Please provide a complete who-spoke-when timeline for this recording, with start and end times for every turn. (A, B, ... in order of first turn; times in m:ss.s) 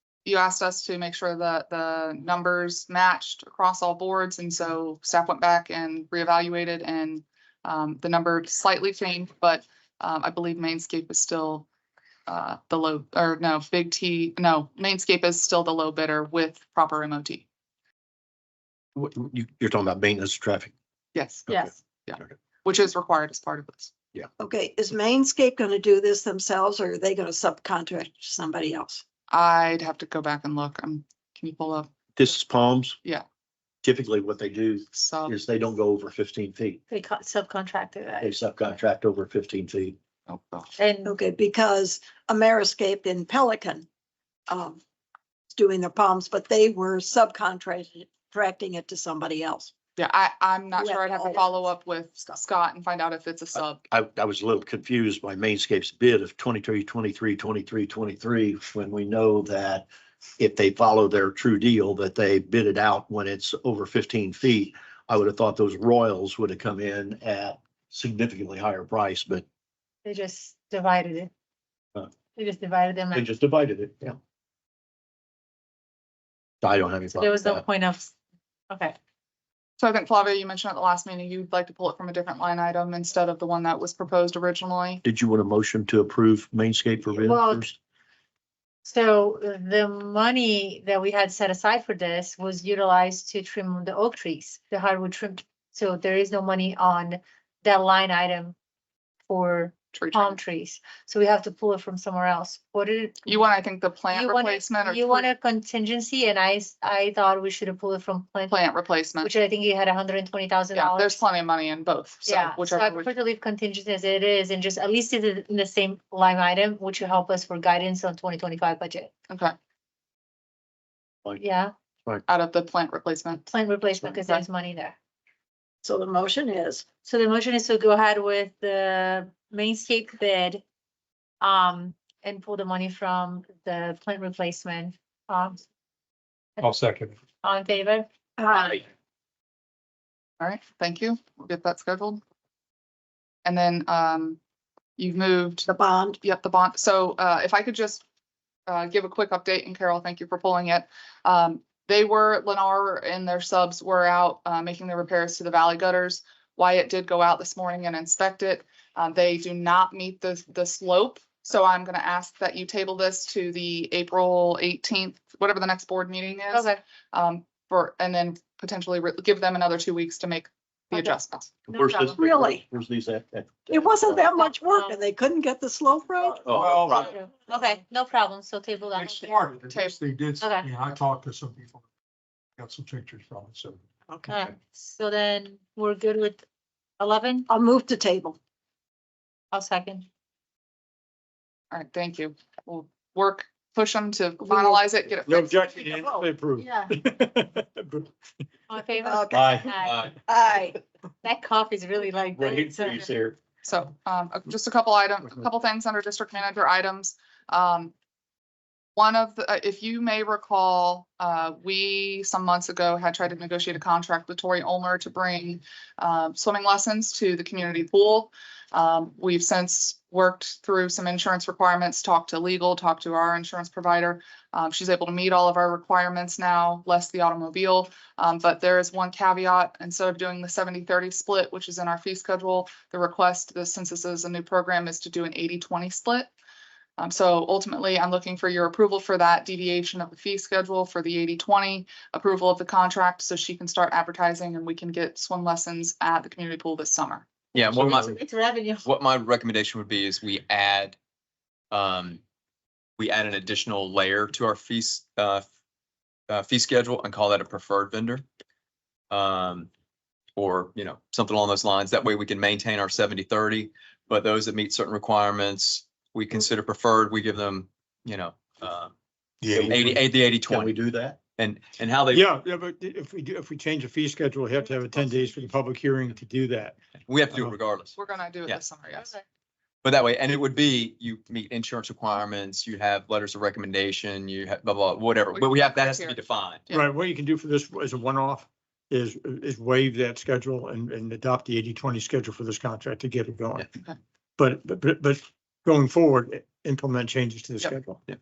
0:00.2-0:11.7 A
0:12.3-0:17.4 A
0:19.0-0:20.7 B
0:21.2-0:23.9 A
0:21.5-0:22.3 B
0:24.4-0:29.0 C
0:29.3-0:31.9 A
0:32.2-0:33.0 B
0:33.8-0:36.8 B
0:34.9-0:35.3 A
0:36.9-0:38.4 D
0:38.2-0:40.0 B
0:40.3-0:40.7 A
0:40.8-0:41.2 D
0:41.0-0:43.9 C
0:44.5-0:44.8 C
0:45.5-0:49.7 C
0:50.0-0:53.8 A
0:50.8-0:51.7 C
0:53.6-0:59.9 B
1:00.4-1:09.4 B
1:10.0-1:11.3 D
1:12.3-1:13.3 D
1:13.1-1:14.2 B
1:16.6-1:17.6 B
1:17.2-1:18.1 D
1:18.7-1:19.0 D
1:19.8-1:25.0 A
1:25.0-1:27.8 B
1:27.1-1:27.7 D
1:28.8-1:38.6 D
1:39.3-1:43.4 D
1:39.9-1:40.4 A
1:43.3-1:45.3 A
1:44.1-1:48.6 D
1:48.5-1:49.3 A
1:49.2-1:51.2 D
1:50.7-1:53.1 A
1:52.2-1:59.1 D
1:59.3-1:59.5 A
2:01.4-2:01.7 D
2:02.3-2:03.4 A
2:03.3-2:05.0 D
2:04.2-2:04.4 A
2:05.8-2:06.9 C
2:06.9-2:10.6 D
2:11.4-2:15.6 D
2:16.6-2:17.2 E
2:17.4-2:18.1 D
2:18.4-2:18.8 C
2:20.4-2:22.2 A
2:23.4-2:24.4 A
2:25.0-2:28.0 A
2:25.7-2:26.2 C
2:28.7-2:52.2 A
2:46.5-2:46.8 D
2:51.7-2:54.3 B
2:52.2-2:52.6 C
2:53.7-2:56.6 C
2:54.3-2:55.0 D
2:56.4-2:57.0 B
2:56.6-2:57.2 E
2:56.9-2:59.2 D
2:58.9-3:01.8 E
3:00.4-3:00.7 D
3:00.8-3:01.2 F
3:02.6-3:03.8 E
3:04.3-3:06.4 D
3:07.0-3:07.5 D
3:07.5-3:08.4 C
3:09.5-3:10.1 D
3:11.7-3:15.9 A
3:14.4-3:14.7 C
3:15.2-3:18.1 F
3:16.6-3:16.9 D
3:18.7-3:20.1 D
3:19.0-3:19.6 C
3:19.3-3:19.7 B
3:19.8-3:20.1 G
3:20.3-3:20.8 C
3:21.2-3:23.1 D
3:22.3-3:23.4 B
3:23.6-3:27.9 A
3:29.0-3:56.3 A
3:57.0-4:07.3 A
4:07.5-4:08.2 G
4:07.7-4:08.9 D
4:08.8-4:11.0 G
4:11.7-4:12.2 G
4:13.0-4:15.4 G
4:16.3-4:18.2 G
4:19.1-4:19.7 G
4:20.4-4:28.9 G
4:29.4-4:29.8 E
4:29.6-4:31.2 B
4:29.6-4:30.8 G
4:31.4-4:32.3 G
4:32.1-4:36.8 F
4:37.1-4:38.6 G
4:37.3-4:37.6 F
4:37.9-4:39.2 A
4:39.8-4:46.6 G
4:45.3-4:46.2 A
4:46.7-4:53.7 F
4:54.4-4:58.0 F